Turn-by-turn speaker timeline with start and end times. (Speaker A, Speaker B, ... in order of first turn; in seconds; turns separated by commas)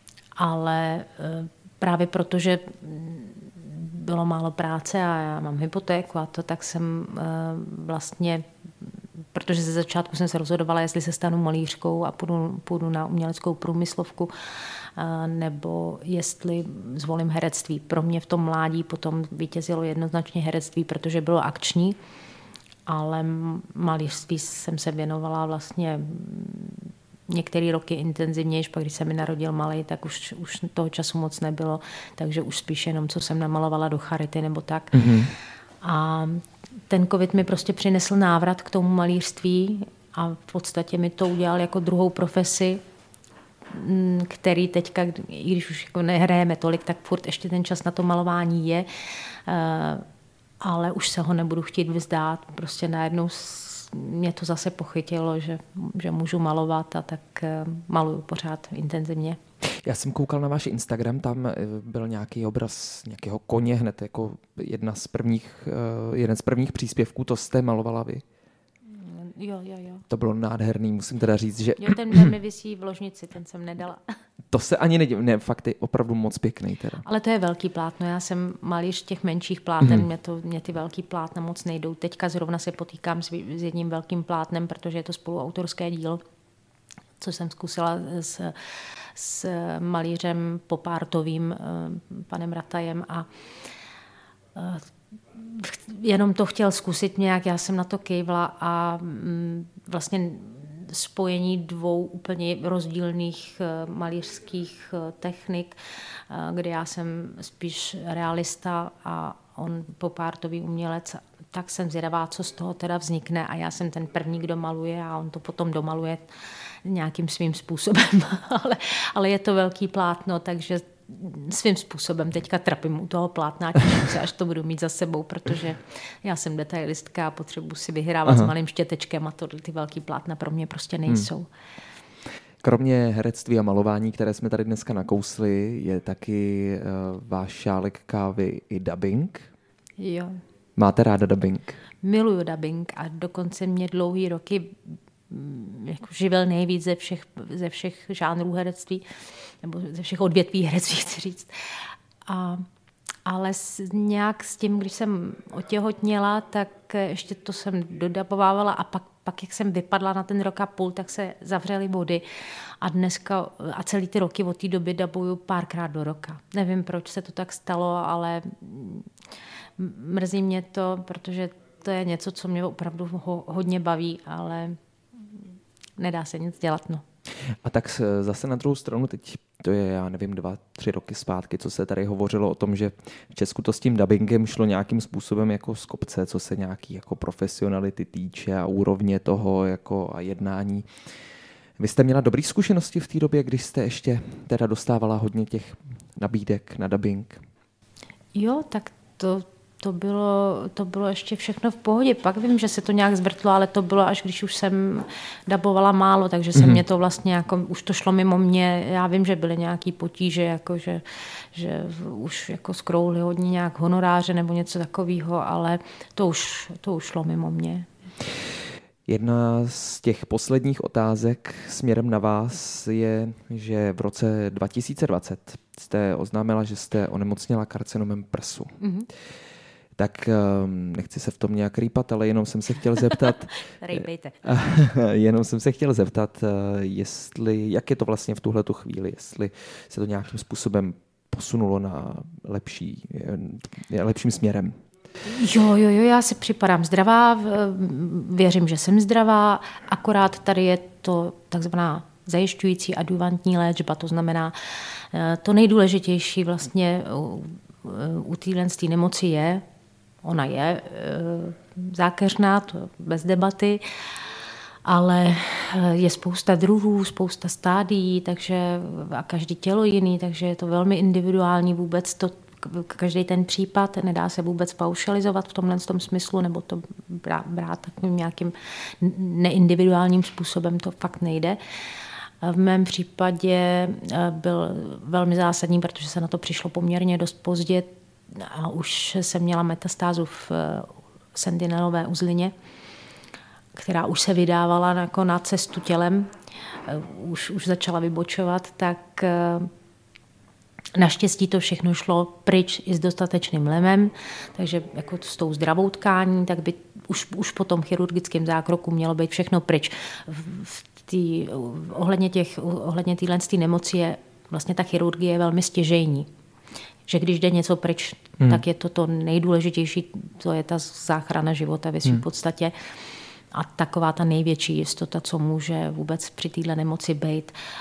Speaker A: 0.4-22.0, Speaker A: 22.9-35.2, Speaker B: 34.9-35.3, Speaker A: 35.8-42.8, Speaker A: 43.7-50.0, Speaker A: 50.6-59.4, Speaker B: 59.8-68.2, Speaker A: 68.9-70.0, Speaker B: 70.1-72.3, Speaker A: 71.8-74.2, Speaker B: 74.5-77.0, Speaker A: 77.0-86.2, Speaker B: 79.8-80.1, Speaker A: 87.2-93.3, Speaker A: 94.5-105.7, Speaker A: 106.3-116.3, Speaker A: 116.8-131.5, Speaker B: 128.2-128.5, Speaker B: 132.6-139.5, Speaker A: 140.0-140.4, Speaker B: 140.8-141.8, Speaker A: 142.0-152.7, Speaker A: 153.2-162.2, Speaker A: 162.8-169.1, Speaker A: 169.8-174.8, Speaker A: 176.0-177.0, Speaker B: 177.6-190.9, Speaker B: 191.8-197.4, Speaker A: 198.3-217.9, Speaker B: 206.5-206.8, Speaker B: 219.1-228.8, Speaker A: 228.8-229.1, Speaker B: 230.0-244.7, Speaker A: 233.2-234.4, Speaker A: 245.2-259.6, Speaker A: 260.2-264.3, Speaker A: 264.8-281.6, Speaker A: 282.4-292.5, Speaker A: 293.7-296.3, Speaker A: 296.8-299.7, Speaker A: 300.9-316.3, Speaker A: 317.1-322.7, Speaker A: 323.5-327.6